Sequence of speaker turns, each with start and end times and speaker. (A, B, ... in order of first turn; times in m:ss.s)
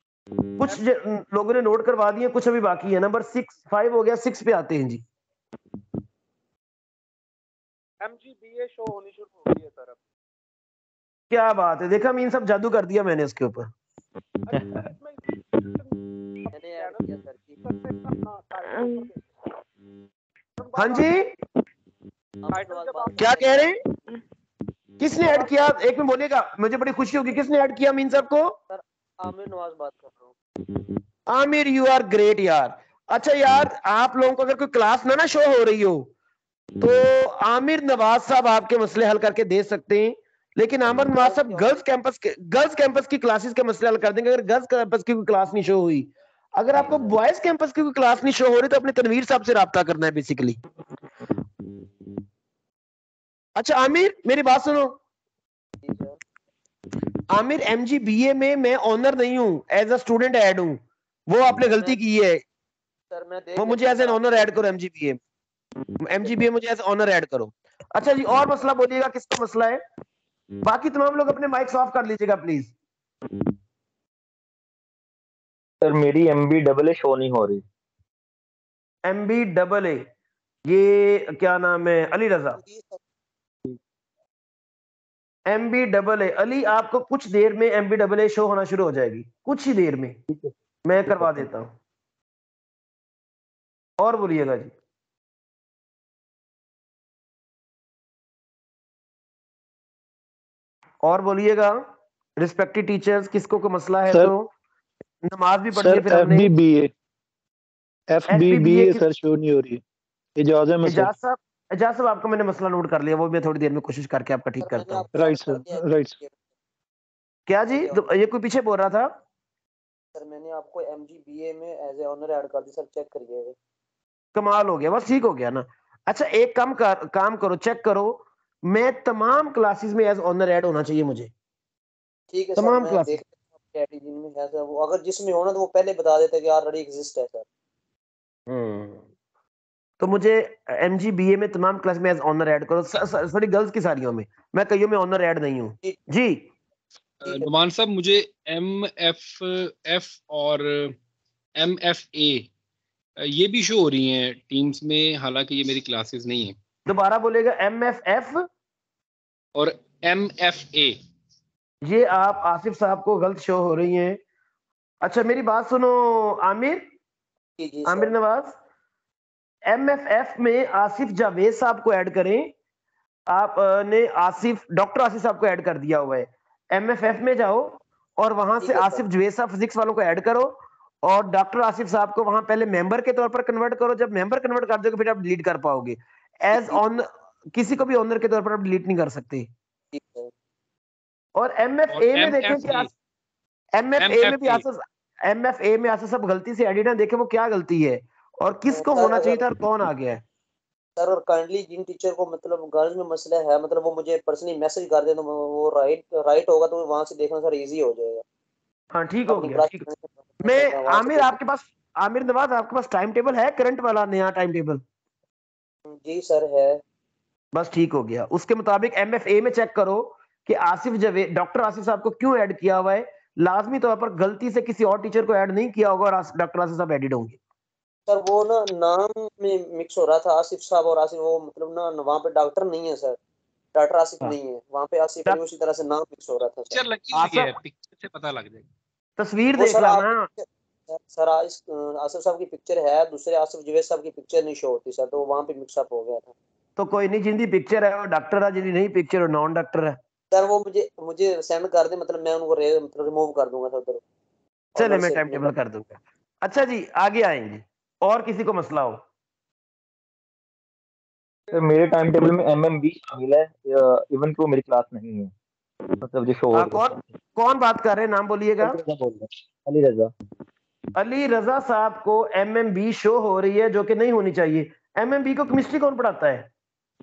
0:00.6-0:05.0 A
0:08.0-0:10.0 B
0:11.3-0:13.7 A
0:14.5-0:19.2 B
0:16.5-0:17.6 C
0:20.6-0:21.2 B
0:20.8-0:21.3 A
0:22.4-0:23.7 C
0:22.5-0:23.7 B
0:23.2-0:23.8 A
0:25.0-0:28.6 A
0:28.7-0:30.3 C
0:31.3-0:36.1 A
0:36.8-0:50.6 A
0:40.9-0:41.8 C
0:46.7-0:47.2 C
0:53.6-0:55.0 A
0:55.8-0:56.2 C
0:57.3-1:02.4 A
1:01.5-1:02.0 C
1:03.1-1:04.6 C
1:03.6-1:05.2 A
1:06.0-1:09.8 A
1:10.6-1:12.7 A
1:15.8-1:17.6 D
1:19.0-1:20.0 A
1:20.7-1:22.6 A
1:22.6-1:23.0 C
1:25.5-1:30.2 A
1:30.8-1:31.7 A
1:31.1-1:31.4 D
1:34.0-1:34.7 A
1:41.0-1:41.8 A
1:42.4-1:44.5 A
1:45.2-1:46.5 A
1:45.7-1:46.9 E
1:48.1-1:49.8 E
1:48.3-1:49.0 A
1:50.4-1:51.1 E
1:50.8-1:55.0 A
1:54.6-1:56.3 C
1:55.1-1:56.2 E
1:57.5-1:59.1 A
1:57.7-1:58.0 C
2:00.1-2:03.5 C
2:04.3-2:11.3 A
2:12.3-2:17.4 C
2:12.6-2:13.2 A
2:18.5-2:19.0 A
2:20.0-2:26.5 A
2:27.2-2:31.0 F
2:31.6-2:32.5 F
2:33.2-2:36.6 F
2:36.9-2:38.4 A
2:39.6-2:41.0 F
2:41.8-2:44.2 A
2:45.0-2:46.8 A
2:47.6-2:48.1 C
2:47.8-2:48.5 A
2:49.7-2:52.5 A
2:53.3-3:09.5 A
2:58.6-2:59.0 C
3:06.5-3:06.8 C
3:09.9-3:10.3 C
3:11.4-3:12.9 A
3:11.9-3:12.9 F
3:13.7-3:20.2 A
3:14.0-3:14.6 F
3:18.7-3:19.4 C
3:21.0-3:28.2 C
3:28.9-3:29.8 A
3:29.3-3:31.4 C
3:30.4-3:34.8 A
3:35.9-3:36.8 C
3:37.5-3:47.4 A
3:48.1-3:53.2 C
3:53.7-3:56.8 C
3:56.7-3:58.6 F
3:57.1-3:57.5 A
3:59.2-4:00.3 A
3:59.5-4:06.3 C
4:06.8-4:10.0 A
4:10.3-4:14.0 C
4:14.7-4:15.5 C
4:14.8-4:19.0 A
4:21.5-4:21.9 B
4:21.5-4:25.3 D
4:26.0-4:27.0 D
4:26.5-4:28.8 A
4:28.6-4:30.1 D
4:31.0-4:36.5 A